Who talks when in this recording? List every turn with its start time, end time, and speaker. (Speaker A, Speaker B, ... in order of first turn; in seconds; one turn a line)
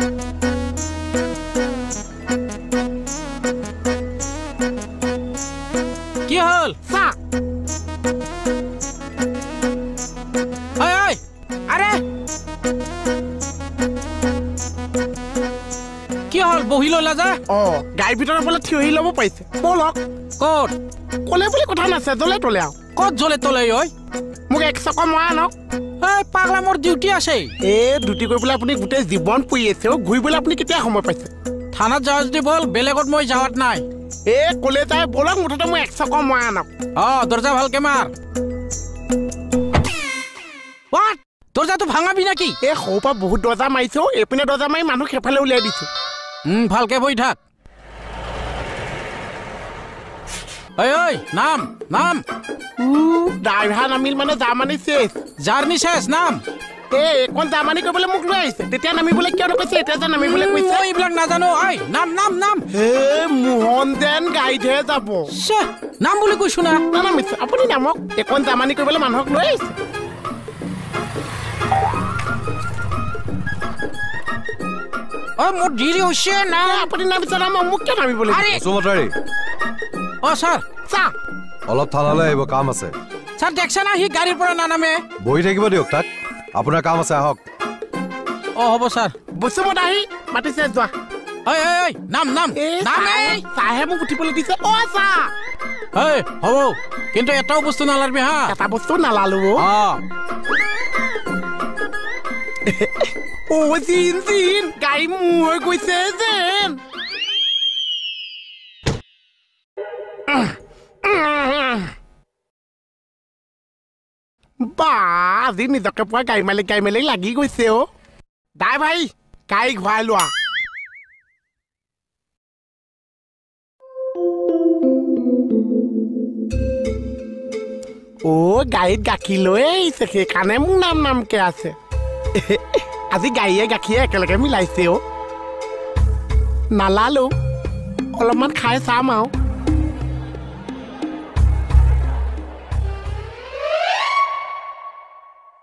Speaker A: 6.3-6.8
Speaker B: 6.8-7.2
Speaker A: 10.8-12.0
Speaker A: 16.3-17.4
Speaker B: 17.5-20.0
Speaker A: 20.4-20.8
Speaker B: 21.3-22.8
Speaker A: 23.0-23.9
Speaker B: 24.5-25.5
Speaker A: 26.0-27.5
Speaker B: 27.6-31.3
Speaker A: 31.7-33.8
Speaker B: 34.3-36.7
Speaker A: 37.0-38.1
Speaker A: 40.9-42.6
Speaker B: 42.6-45.9
Speaker A: 46.5-47.4
Speaker A: 50.8-52.2
Speaker B: 52.8-55.2
Speaker A: 55.4-56.4
Speaker B: 56.9-60.9
Speaker A: 60.2-62.6
Speaker B: 62.7-65.3
Speaker A: 65.3-66.8
Speaker B: 66.9-69.8
Speaker A: 75.4-76.9
Speaker B: 76.6-78.6
Speaker A: 78.3-78.6
Speaker C: 78.5-79.1
Speaker A: 80.2-80.6
Speaker B: 80.9-81.1
Speaker C: 81.7-82.9
Speaker A: 83.4-85.0
Speaker C: 85.2-87.4
Speaker A: 88.6-89.1
Speaker B: 89.3-90.9
Speaker A: 91.5-93.4
Speaker B: 92.5-95.3
Speaker A: 95.9-98.5
Speaker B: 98.5-99.7
Speaker A: 99.6-100.0
Speaker B: 102.7-106.8
Speaker B: 110.3-111.9
Speaker B: 114.6-117.9
Speaker B: 118.6-120.3
Speaker B: 128.2-131.8
Speaker B: 132.3-135.0
Speaker B: 136.7-137.3
Speaker B: 138.1-139.3